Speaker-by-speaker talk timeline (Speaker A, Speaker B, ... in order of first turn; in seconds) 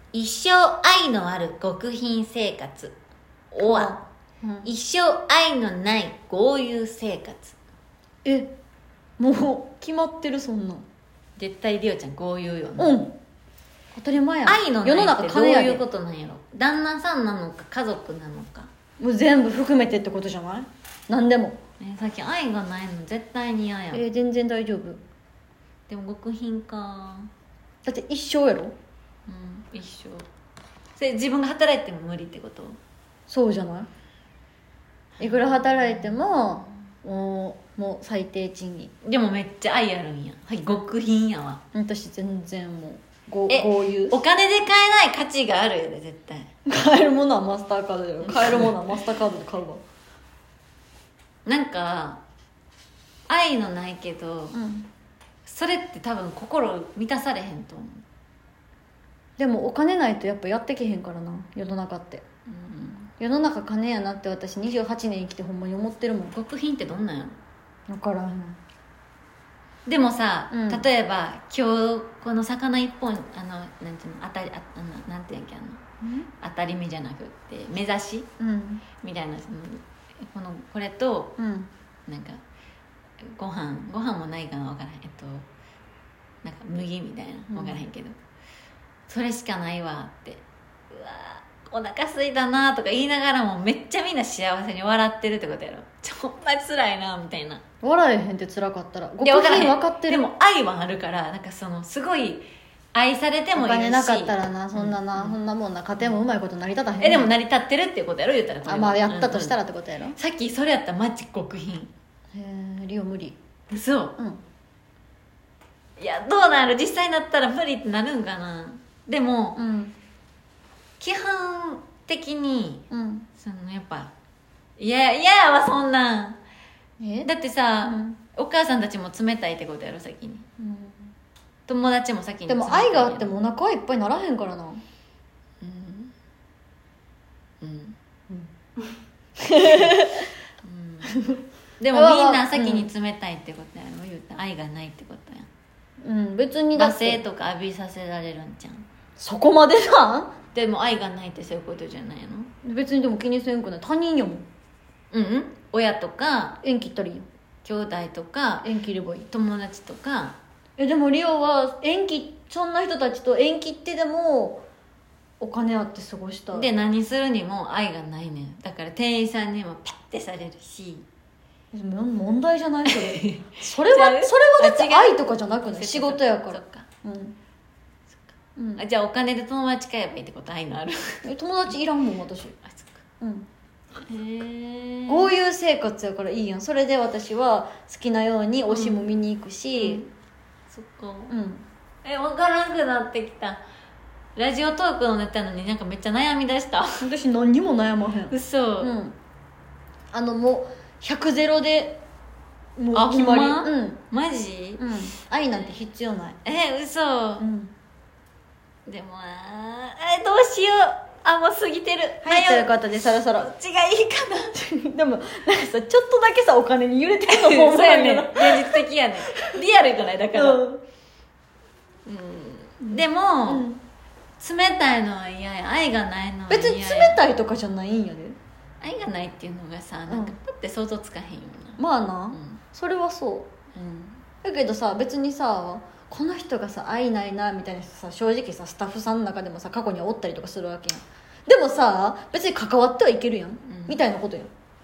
Speaker A: 0.1-3.0, 3.5-4.0, 4.6-7.6, 11.3-13.0, 14.4-18.7, 21.8-24.1, 25.9-27.3, 29.3-30.2, 31.0-32.8, 35.2-36.7, 39.0-41.6, 43.5-46.5, 48.2-49.0, 51.5-52.2, 53.3-54.6, 55.4-58.0, 62.5-63.1, 66.3-67.4, 69.9-75.8, 76.4-78.3, 79.0-81.4, 82.1-82.4, 83.3-85.5, 86.4-88.1, 89.1-97.6, 99.2-105.4, 106.0-106.2, 107.0-109.6, 110.1-111.9, 113.7-114.2, 116.0-119.6, 121.0-122.8, 123.4-124.1, 124.8-126.4, 127.2-130.5, 131.7-133.3, 135.6-136.1, 137.6-138.0, 139.6-141.1, 141.8-145.5, 146.8-148.9, 150.5-152.5, 155.1-156.6, 157.6-158.7, 159.3-160.4, 166.5-171.1, 172.9-176.9, 178.3-181.2, 182.6-183.0, 184.0-185.3, 188.7-189.1, 189.8-190.1, 190.7-191.3, 192.0-193.6, 194.4-197.1, 198.3-198.9, 202.9-204.9, 206.4-207.4, 208.9-214.6, 217.3-220.8, 222.1-223.7, 224.4-227.2, 228.8-231.8, 232.3-232.6, 233.7-234.2, 243.7-244.0
Speaker B: 3.6-4.7, 8.2-8.5, 9.2-10.8, 12.8-13.2, 13.9-15.8, 19.0-21.6, 23.9-25.0, 27.8-28.7, 33.3-33.9, 35.2-38.9, 41.7-44.2, 46.7-49.8, 54.5-54.9, 59.4-62.2, 63.1-66.4, 67.9-68.6, 70.5-70.9, 76.0-76.3, 78.4-78.8, 81.4-81.7, 87.5-87.8, 97.8-100.2, 103.5-107.3, 108.6-110.2, 112.3-113.4, 119.5-119.9, 122.9-123.3, 127.0-127.3, 127.8-128.2, 130.6-131.1, 132.5-134.8, 139.4-140.3, 141.1-142.9, 146.0-147.2, 149.2-150.3, 152.6-154.4, 156.6-157.3, 158.6-159.3, 160.8-164.6, 165.4-166.7, 171.7-177.4, 178.6-178.8, 181.2-182.6, 183.2-183.5, 185.1-190.0, 191.3-191.7, 197.0-199.2, 200.1-202.0, 202.8-204.0, 204.8-206.4, 207.4-207.7, 212.2-213.5, 214.5-219.6, 220.3-220.8, 222.8-223.8, 226.5-228.4, 230.1-230.3, 231.8-233.5, 234.4-244.5